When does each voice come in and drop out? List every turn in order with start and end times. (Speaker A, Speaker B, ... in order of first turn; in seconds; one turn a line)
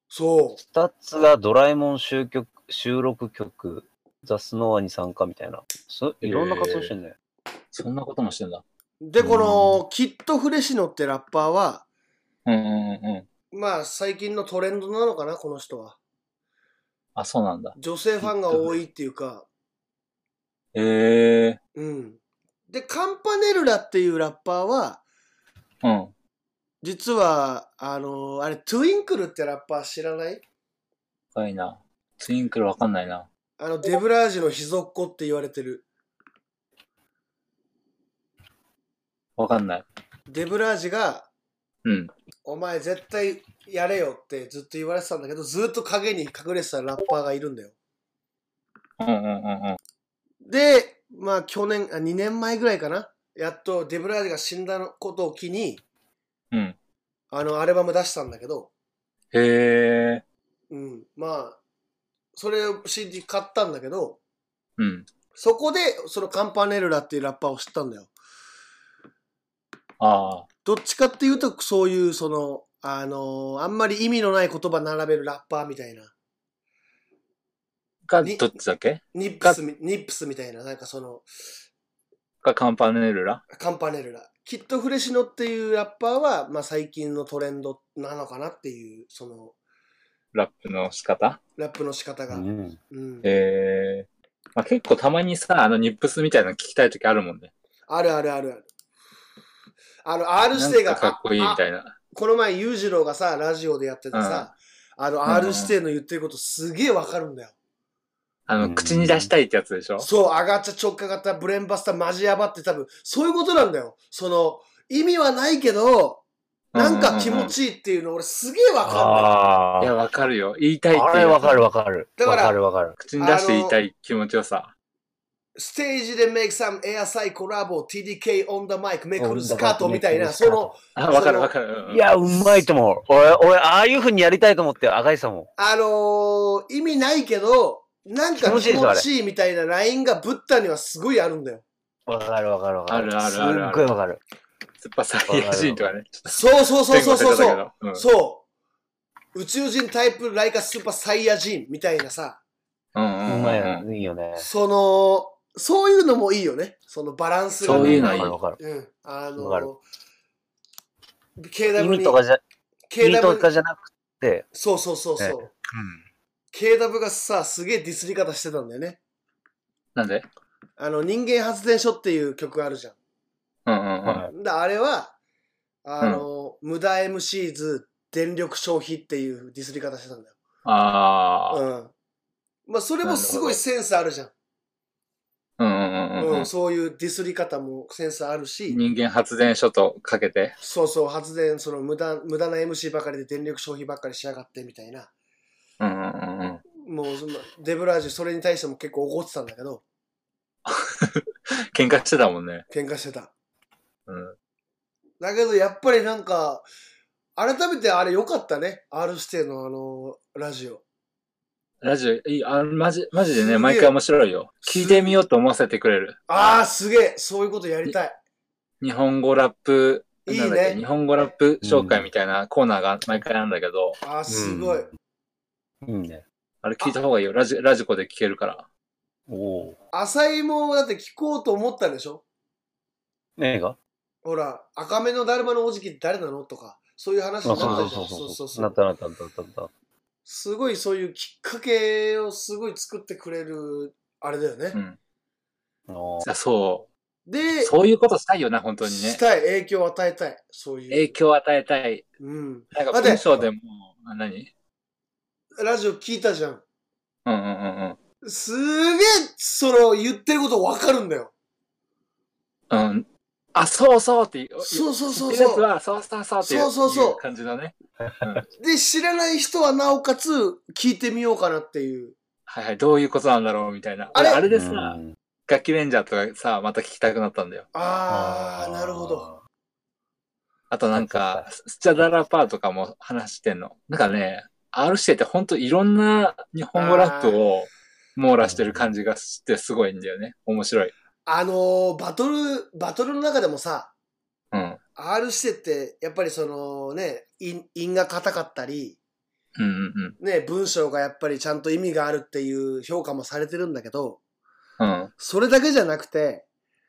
Speaker A: 0.1-0.6
Speaker B: 0.6-7.2
Speaker C: 6.2-6.9
Speaker C: 7.7-8.6
Speaker A: 9.0-11.8
Speaker B: 9.2-9.8
Speaker C: 12.4-13.3
Speaker A: 13.5-16.0
Speaker C: 17.1-18.7
Speaker A: 17.8-19.5
Speaker C: 20.7-21.6
Speaker A: 21.8-25.0
Speaker C: 25.8-26.1
Speaker A: 26.8-30.4
Speaker C: 31.3-33.2
Speaker A: 33.6-35.8
Speaker C: 39.4-39.8
Speaker A: 40.3-41.3
Speaker C: 41.8-42.1
Speaker A: 42.4-47.7
Speaker C: 49.0-49.8
Speaker A: 50.4-55.8
Speaker A: 57.3-58.7
Speaker C: 59.3-60.2
Speaker A: 60.7-61.6
Speaker A: 62.3-64.2
Speaker C: 64.8-65.1
Speaker A: 65.3-68.1
Speaker C: 70.0-70.5
Speaker A: 70.6-76.1
Speaker C: 78.0-79.6
Speaker A: 79.1-81.3
Speaker C: 82.4-83.4
Speaker A: 83.5-89.5
Speaker C: 90.3-91.4
Speaker A: 91.6-93.3
Speaker B: 92.3-92.8
Speaker C: 93.2-97.5
Speaker A: 97.9-98.7
Speaker A: 100.0-101.6
Speaker C: 100.5-101.9
Speaker A: 102.1-107.5
Speaker C: 104.1-104.5
Speaker C: 105.2-105.7
Speaker C: 108.5-110.1
Speaker B: 108.6-109.3
Speaker A: 110.0-116.2
Speaker C: 116.7-117.5
Speaker A: 116.7-119.3
Speaker B: 118.8-119.9
Speaker C: 119.8-121.6
Speaker B: 120.9-123.0
Speaker A: 122.2-122.5
Speaker C: 123.0-124.7
Speaker A: 123.2-123.8
Speaker A: 125.5-131.5
Speaker B: 129.2-130.7
Speaker C: 130.9-132.0
Speaker B: 131.9-135.5
Speaker A: 135.6-141.6
Speaker B: 138.4-139.1
Speaker B: 142.1-144.2
Speaker C: 142.9-143.9
Speaker C: 144.8-148.0
Speaker B: 145.3-145.9
Speaker A: 146.3-148.4
Speaker A: 149.3-152.4
Speaker C: 152.9-153.8
Speaker B: 153.3-154.5
Speaker A: 154.4-159.8
Speaker C: 157.6-158.4
Speaker B: 157.7-158.6
Speaker B: 159.4-159.7
Speaker A: 161.4-162.2
Speaker B: 161.7-162.4
Speaker A: 162.9-163.5
Speaker B: 163.0-164.4
Speaker A: 164.5-165.5
Speaker B: 165.2-166.0
Speaker A: 166.5-169.0
Speaker C: 169.9-170.2
Speaker A: 170.8-172.9
Speaker C: 173.7-174.3
Speaker B: 174.0-174.3
Speaker A: 174.3-175.1
Speaker A: 175.8-180.3
Speaker C: 180.6-181.6
Speaker A: 181.5-181.9
Speaker A: 182.7-184.3
Speaker C: 183.0-183.6
Speaker C: 185.6-186.5
Speaker A: 186.2-188.8
Speaker C: 188.7-190.5
Speaker A: 190.6-195.1
Speaker C: 195.8-196.6
Speaker A: 196.8-199.8
Speaker C: 200.7-202.6
Speaker A: 202.7-203.3
Speaker C: 204.1-204.3
Speaker A: 205.2-206.6
Speaker A: 207.4-210.8
Speaker C: 211.8-216.2
Speaker A: 213.3-213.9
Speaker A: 214.6-215.2
Speaker A: 216.3-218.2
Speaker C: 218.8-224.0
Speaker A: 220.2-220.8
Speaker B: 221.6-222.1
Speaker A: 224.0-224.9
Speaker B: 224.3-224.9
Speaker B: 225.8-226.2
Speaker C: 226.6-228.7
Speaker B: 229.3-229.8
Speaker A: 229.9-232.2
Speaker B: 233.4-233.8
Speaker A: 234.2-238.8
Speaker B: 237.4-239.7
Speaker C: 237.6-237.9
Speaker A: 240.2-244.8
Speaker C: 244.7-245.0
Speaker B: 245.9-246.3
Speaker C: 246.2-246.9
Speaker A: 247.3-247.7
Speaker C: 247.6-249.2
Speaker A: 248.8-251.1
Speaker C: 250.9-252.0
Speaker A: 252.2-253.4
Speaker C: 252.7-254.5
Speaker A: 255.6-256.6
Speaker C: 257.2-258.0
Speaker A: 258.2-261.3
Speaker C: 262.7-268.4
Speaker A: 264.6-265.6
Speaker A: 266.4-267.2
Speaker B: 268.0-268.4
Speaker A: 268.6-272.1
Speaker C: 272.5-277.6
Speaker A: 274.1-274.4
Speaker B: 274.5-275.1
Speaker A: 277.7-279.3
Speaker B: 278.1-279.4
Speaker C: 280.7-290.9
Speaker B: 280.9-281.4
Speaker A: 286.7-287.4
Speaker B: 288.4-288.9
Speaker A: 291.3-293.9
Speaker C: 294.5-294.8
Speaker A: 294.9-299.0
Speaker C: 299.6-300.2
Speaker A: 300.2-304.2
Speaker C: 304.8-305.1
Speaker A: 305.2-306.4